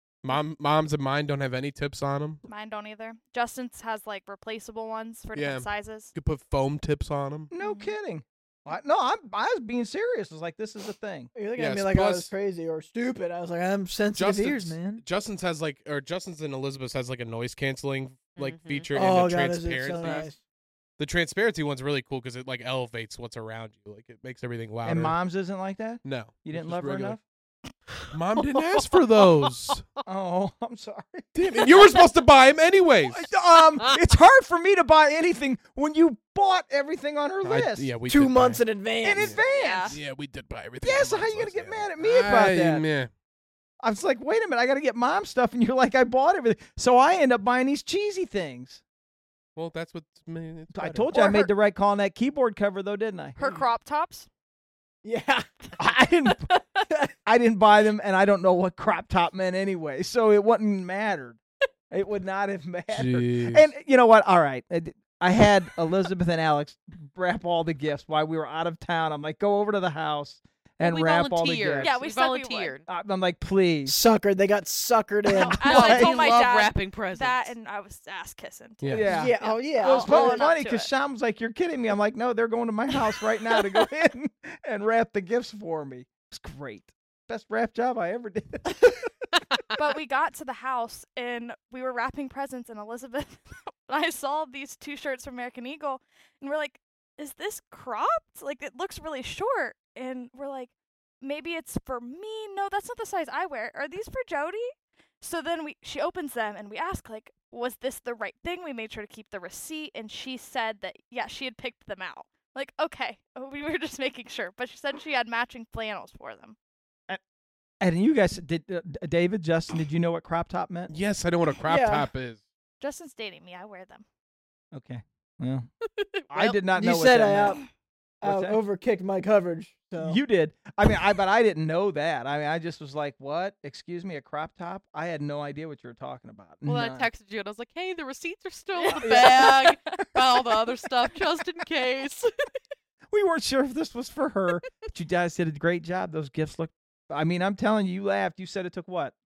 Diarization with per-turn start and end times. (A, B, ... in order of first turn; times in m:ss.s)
0:00.2-0:02.4 A
0:02.4-0:06.1 B
0:05.3-0:07.5 A
0:07.5-0:11.3 C
0:07.6-0:07.9 B
0:11.3-0:15.0 D
0:11.6-0:12.3 A
0:14.1-0:20.3 A
0:18.3-0:18.9 E
0:18.9-0:20.4 D
0:21.0-0:25.2 A
0:24.8-0:27.2 C
0:26.0-0:27.2 A
0:28.1-0:29.8 A
0:30.0-0:31.8 C
0:31.3-0:33.3 A
0:33.1-0:37.9 C
0:37.4-0:38.6 A
0:38.1-0:39.4 D
0:39.0-0:40.0 C
0:39.2-0:43.1 A
0:39.5-0:40.0 B
0:40.8-0:42.8 C
0:43.8-0:48.8 C
0:49.6-0:51.2 A
0:50.7-0:53.4 C
0:51.2-0:51.4 B
0:53.4-0:54.3 B
0:55.0-0:55.5 D
0:55.8-0:56.5 C
0:57.2-1:01.4 C
1:01.9-1:11.9 C
1:02.9-1:03.7 A
1:10.8-1:12.8 E
1:11.8-1:12.8 B
1:12.9-1:14.0 C
1:13.8-1:15.6 D
1:15.3-1:20.9 B
1:15.6-1:17.5 E
1:15.7-1:16.1 C
1:18.8-1:19.1 A
1:18.9-1:29.0 C
1:19.1-1:20.5 D
1:29.8-1:56.6 B
1:57.8-2:00.9 C
2:00.9-2:02.4 A
2:01.6-2:02.1 D
2:02.8-2:04.0 B
2:04.7-2:05.7 C
2:06.0-2:06.6 E
2:06.3-2:07.6 C
2:06.7-2:07.6 D
2:08.2-2:10.2 D
2:08.2-2:08.6 C
2:10.0-2:17.1 C
2:16.6-2:22.3 E
2:18.8-2:19.4 B
2:19.0-2:19.6 C
2:23.1-2:29.1 C